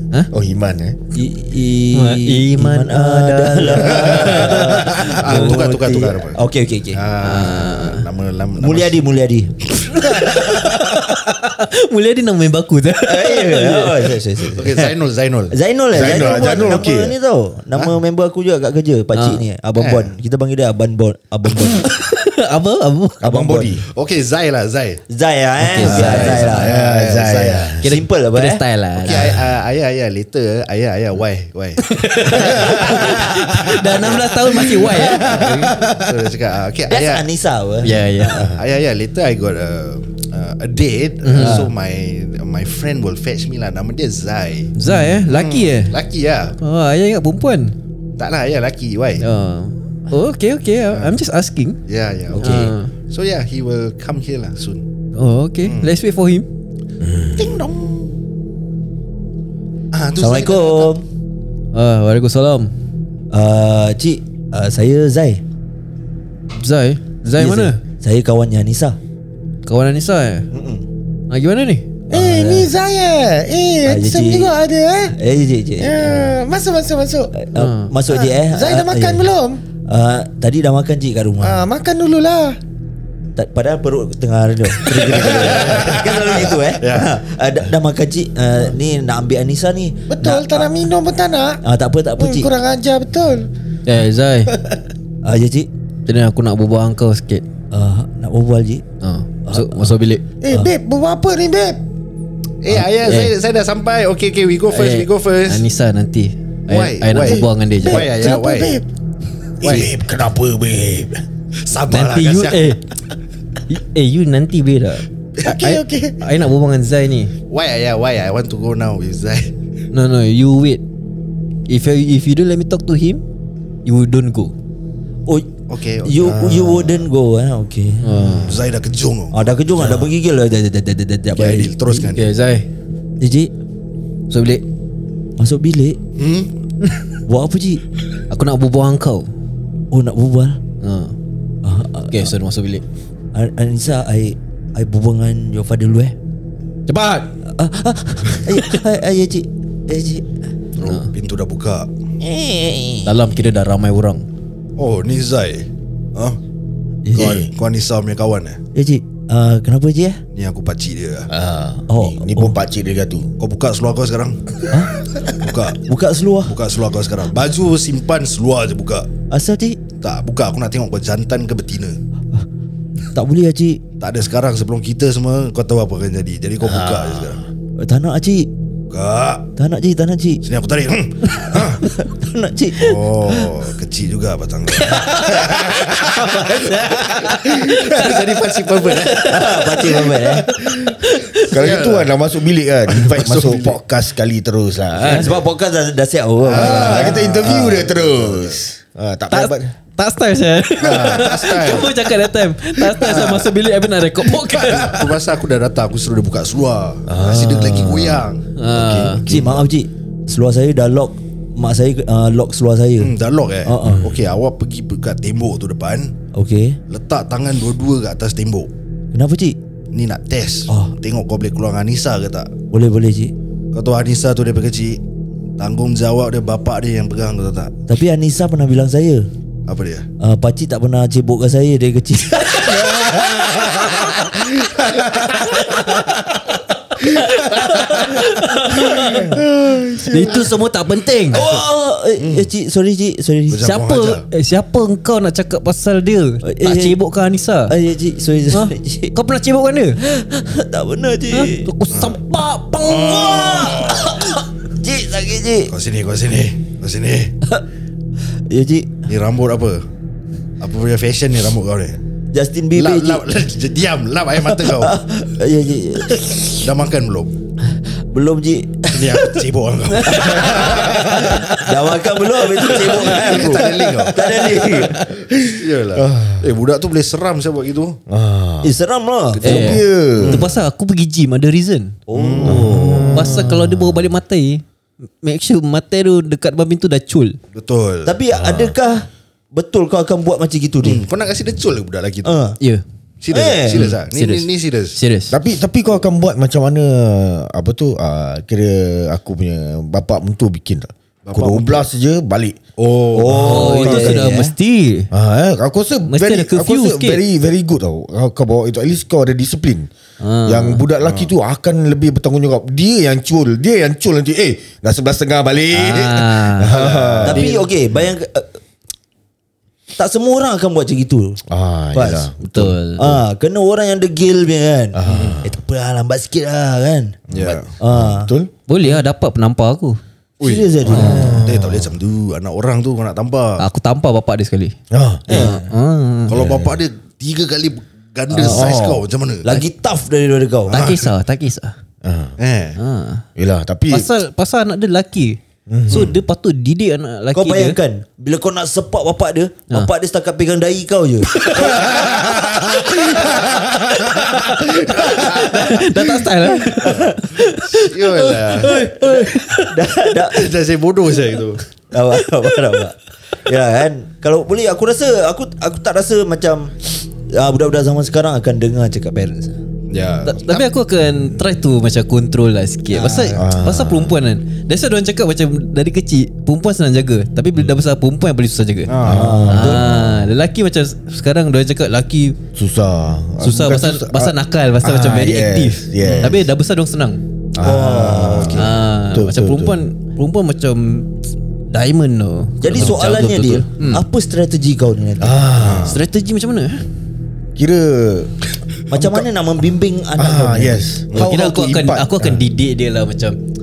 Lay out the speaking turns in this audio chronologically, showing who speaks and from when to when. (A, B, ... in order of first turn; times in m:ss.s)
0:00.3-0:01.0 A
0:01.1-0:07.0 B
0:01.9-0:05.6 C
0:03.9-0:05.1 A
0:04.2-0:06.4 D
0:06.9-0:09.0 D
0:07.2-0:08.1 C
0:08.6-0:09.5 B
0:09.9-0:14.2 C
0:10.6-0:11.0 A
0:13.0-0:14.9 B
0:14.6-0:16.8 D
0:15.5-0:21.9 B
0:15.9-0:17.1 A
0:19.1-0:19.4 C
0:19.8-0:20.1 D
0:21.8-0:23.2 C
0:23.2-0:23.8 A
0:23.2-0:23.8 B
0:23.9-0:25.0 D
0:25.1-0:26.8 B
0:25.6-0:26.6 C
0:25.8-0:27.8 D
0:25.9-0:27.9 A
0:27.8-0:29.4 C
0:27.8-0:28.6 B
0:29.0-0:33.2 D
0:31.8-0:35.6 C
0:32.3-0:36.2 A
0:35.2-0:37.3 D
0:36.9-0:38.5 B
0:37.8-0:38.5 C
0:38.6-0:44.7 D
0:41.2-0:41.7 C
0:41.4-0:41.7 B
0:44.8-0:46.0 C
0:45.3-0:46.6 D
0:46.6-0:47.8 C
0:48.2-0:49.2 D
0:49.2-0:51.8 C
0:51.9-0:54.8 D
0:52.3-0:52.7 B
0:52.4-0:52.9 C
0:55.1-0:56.5 C
0:55.6-0:56.0 D
0:57.0-0:57.7 A
0:57.4-0:58.1 D
0:59.9-1:00.9 D
1:00.2-1:01.1 B
1:01.7-1:02.7 C
1:03.3-1:05.4 B
1:06.6-1:07.8 C
1:07.4-1:09.0 B
1:09.7-1:10.5 C
1:10.5-1:10.8 B
1:11.3-1:11.9 C
1:12.1-1:15.2 A
1:12.1-1:12.7 B
1:13.8-1:14.6 B
1:15.1-1:16.4 B
1:15.8-1:17.3 A
1:17.4-1:19.3 B
1:17.6-1:17.9 C
1:18.1-1:19.6 A
1:19.9-1:21.7 B
1:21.4-1:22.6 A
1:23.4-1:30.7 B
1:24.8-1:26.6 A
1:25.3-1:26.0 D
1:26.8-1:27.1 D
1:30.1-1:31.6 A
1:31.6-1:32.5 B
1:32.2-1:33.5 A
1:33.9-1:34.5 C
1:34.5-1:34.8 A
1:35.2-1:35.7 B
1:36.1-1:37.4 C
1:37.7-1:38.8 B
1:39.0-1:40.2 C
1:39.5-1:39.9 B
1:40.4-1:41.8 A
1:40.5-1:40.7 B
1:42.6-1:45.6 D
1:43.0-1:43.3 C
1:44.7-1:48.1 C
1:46.7-1:48.8 D
1:47.2-1:48.8 A
1:49.6-1:51.2 A
1:49.6-1:49.9 D
1:51.6-1:52.8 D
1:51.9-1:52.8 C
1:53.7-1:57.3 C
1:55.4-1:56.2 A
1:57.5-1:59.5 D
1:59.9-2:00.8 C
2:01.7-2:03.2 C
2:03.8-2:04.5 C
2:05.3-2:08.4 B
2:05.7-2:06.5 D
2:06.2-2:07.0 A
2:08.0-2:08.6 C
2:08.4-2:10.1 D
2:09.3-2:12.1 B
2:11.4-2:12.3 D
2:12.2-2:12.7 C
2:13.2-2:13.5 B
2:14.3-2:14.6 C
2:15.4-2:16.0 B
2:16.2-2:16.5 D
2:17.3-2:17.8 B
2:18.3-2:19.3 C
2:19.9-2:20.6 B
2:20.8-2:21.2 C
2:21.6-2:22.3 B
2:22.1-2:22.8 C
2:23.3-2:26.2 B
2:26.9-2:27.3 C
2:27.5-2:30.3 B
2:30.8-2:31.9 D
2:30.8-2:31.1 C
2:32.2-2:33.3 B
2:33.0-2:34.2 C
2:34.8-2:36.4 D
2:37.2-2:37.5 A
2:37.2-2:38.6 D
2:38.7-2:40.2 B
2:40.3-2:41.3 D
2:41.3-2:43.3 A
2:41.9-2:42.6 B
2:43.4-2:44.4 D
2:44.7-2:46.6 B
2:45.4-2:45.8 D
2:46.5-2:49.1 D
2:49.3-2:49.8 B
2:50.0-2:52.0 D
2:53.1-2:53.8 B
2:54.0-2:57.4 D
2:56.6-2:57.5 A
2:57.8-2:58.5 B
2:58.9-2:59.5 D
2:59.6-3:00.4 B
3:00.4-3:01.8 D
3:01.5-3:03.6 B
3:02.8-3:09.4 D
3:04.9-3:05.6 C
3:05.3-3:08.2 A
3:06.6-3:08.2 C
3:08.8-3:11.6 C
3:09.2-3:10.5 B
3:10.1-3:11.0 A
3:11.5-3:15.4 A
3:11.5-3:12.2 D
3:12.9-3:13.8 D
3:15.0-3:15.4 C
3:15.0-3:17.9 B
3:16.4-3:18.6 D
3:16.5-3:19.7 A
3:19.3-3:25.1 C
3:20.8-3:21.9 D
3:20.8-3:21.4 A
3:22.8-3:23.5 A
3:24.4-3:25.0 A
3:24.7-3:28.4 D
3:27.1-3:29.6 A
3:28.6-3:29.3 C
3:29.3-3:34.1 B
3:33.0-3:36.1 D
3:33.8-3:34.2 A
3:36.3-3:36.8 B
3:36.9-3:38.7 D
3:39.1-3:39.6 B
3:39.9-3:42.5 D
3:40.7-3:40.9 B
3:42.7-3:43.3 B
3:43.7-3:45.0 D
3:45.6-3:47.7 D
3:47.9-3:49.3 B
3:49.7-3:50.1 D
3:50.2-3:54.1 B
3:52.5-3:56.4 A
3:57.0-3:59.4 C
3:57.0-3:57.2 A
3:57.6-3:57.9 D
3:58.2-4:00.5 A
3:59.1-3:59.4 B
4:00.1-4:01.4 C
4:01.3-4:03.7 B
4:01.3-4:01.6 D
4:02.2-4:02.5 D
4:03.5-4:04.2 D
4:03.6-4:07.8 C
4:06.4-4:07.0 B
4:07.7-4:09.1 B
4:08.5-4:10.0 C
4:10.0-4:11.7 B
4:11.3-4:13.5 C
4:11.9-4:12.2 D
4:12.8-4:15.7 B
4:12.9-4:14.2 D
4:15.7-4:17.3 D
4:18.5-4:18.9 B
4:19.1-4:19.8 D
4:20.6-4:22.0 D
4:22.3-4:23.3 B
4:22.8-4:25.0 D
4:24.4-4:26.6 B
4:26.5-4:27.3 D
4:27.7-4:35.0 B
4:28.9-4:31.2 D
4:30.3-4:31.9 A
4:32.6-4:38.0 D
4:33.2-4:36.5 A
4:38.1-4:38.7 A
4:38.6-4:39.8 B
4:39.4-4:40.5 D
4:39.4-4:40.5 A
4:39.4-4:42.0 C
4:42.1-4:43.4 B
4:42.1-4:43.0 D
4:42.4-4:44.1 A
4:43.1-4:44.6 C
4:45.2-4:47.4 C
4:47.5-4:48.2 D
4:48.0-4:51.0 B
4:48.3-4:48.8 A
4:50.8-4:52.4 D
4:52.2-4:52.6 B
4:53.2-4:55.0 D
4:53.3-4:53.9 B
4:53.7-4:55.4 C
4:55.3-5:02.6 A
5:01.2-5:01.9 D
5:02.8-5:03.7 D
5:03.1-5:04.5 B
5:03.3-5:04.4 A
5:03.4-5:05.1 C
5:05.1-5:09.9 A
5:06.1-5:07.2 C
5:10.2-5:10.8 C
5:10.5-5:17.5 A
5:11.0-5:11.3 D
5:15.7-5:16.8 C
5:16.7-5:17.7 D
5:17.2-5:18.6 B
5:20.0-5:21.4 B
5:21.5-5:23.2 A
5:21.9-5:22.3 B
5:22.4-5:23.0 C
5:23.0-5:27.2 B
5:24.9-5:25.5 A
5:25.1-5:25.4 D
5:27.3-5:27.7 D
5:27.3-5:28.5 A
5:27.8-5:28.3 B
5:28.7-5:30.0 C
5:30.4-5:33.6 D
5:30.4-5:31.5 B
5:30.9-5:31.9 A
5:30.9-5:31.3 C
5:33.6-5:34.8 C
5:34.9-5:35.5 A
5:35.3-5:35.7 B
5:35.3-5:36.4 C
5:36.3-5:39.5 D
5:36.3-5:36.8 A
5:38.3-5:38.8 B
5:38.4-5:39.0 A
5:39.4-5:40.9 B
5:40.7-5:41.1 D
5:40.7-5:41.8 C
5:42.0-5:42.4 A
5:42.4-5:42.8 D
5:42.8-5:43.3 C
5:43.4-5:44.1 A
5:43.9-5:47.8 C
5:45.7-5:46.2 A
5:47.3-5:52.2 B
5:51.4-5:51.8 C
5:51.6-5:52.9 D
5:51.6-5:55.7 A
5:52.8-5:53.2 C
5:54.2-6:00.1 C
5:56.4-5:57.2 B
5:57.7-5:58.8 D
5:58.5-6:00.5 B
6:00.3-6:01.6 D
6:01.9-6:09.6 B
6:09.9-6:10.7 D
6:10.2-6:18.9 C
6:12.9-6:13.4 B
6:13.4-6:14.2 A
6:18.9-6:19.5 D
6:19.0-6:20.3 A
6:19.0-6:19.9 B
6:19.5-6:22.4 C
6:22.6-6:26.5 A
6:23.4-6:27.2 C
6:26.0-6:26.4 D
6:27.6-6:29.8 A
6:27.6-6:28.7 B
6:28.2-6:28.5 D
6:28.6-6:31.1 C
6:31.7-6:34.0 C
6:32.6-6:35.5 B
6:35.2-6:36.0 A
6:35.6-6:36.0 D
6:35.8-6:36.8 C
6:37.6-6:38.4 A
6:38.9-6:40.9 B
6:38.9-6:39.3 A
6:40.2-6:42.4 A
6:41.2-6:43.4 C